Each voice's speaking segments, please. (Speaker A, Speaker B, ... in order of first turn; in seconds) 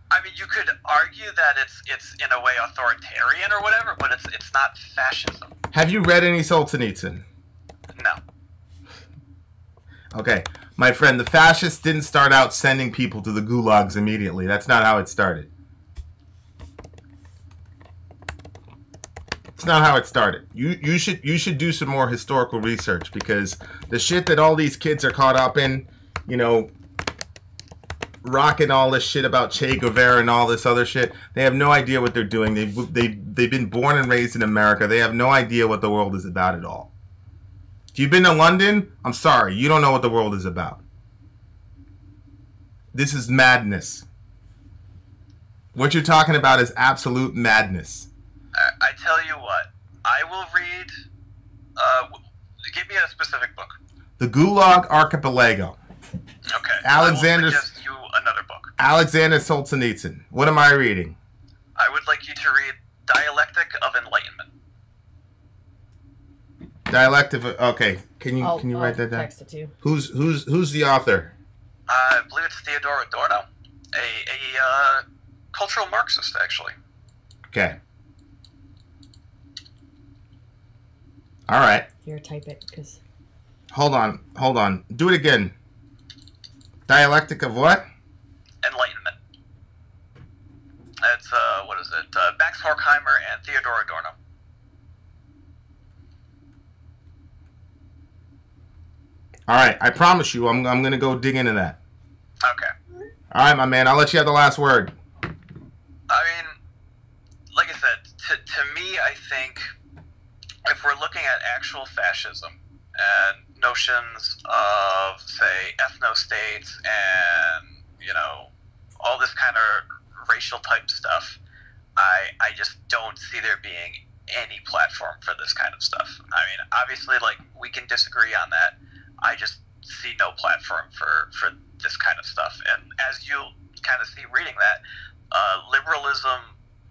Speaker A: 0.1-5.5, 48.5-50.9, 51.8-53.8, 56.5-58.7, 61.8-64.5, 71.9-76.7, 88.6-89.2, 91.0-94.1, 102.4-102.7, 106.1-106.5, 107.5-109.7, 110.6-121.4, 122.0-136.6
Speaker B: 5.7-7.2, 10.1-15.5, 19.6-26.7, 28.2-36.9, 37.9-40.8, 42.9-44.0, 45.7-48.1, 54.2-55.8, 56.8-57.6, 58.8-61.1, 66.9-69.3, 69.8-71.3, 77.5-77.8, 81.5-81.9, 83.7-85.5, 86.9-87.8, 99.5-101.8, 103.3-104.9
Speaker C: 68.4-69.7, 82.0-83.0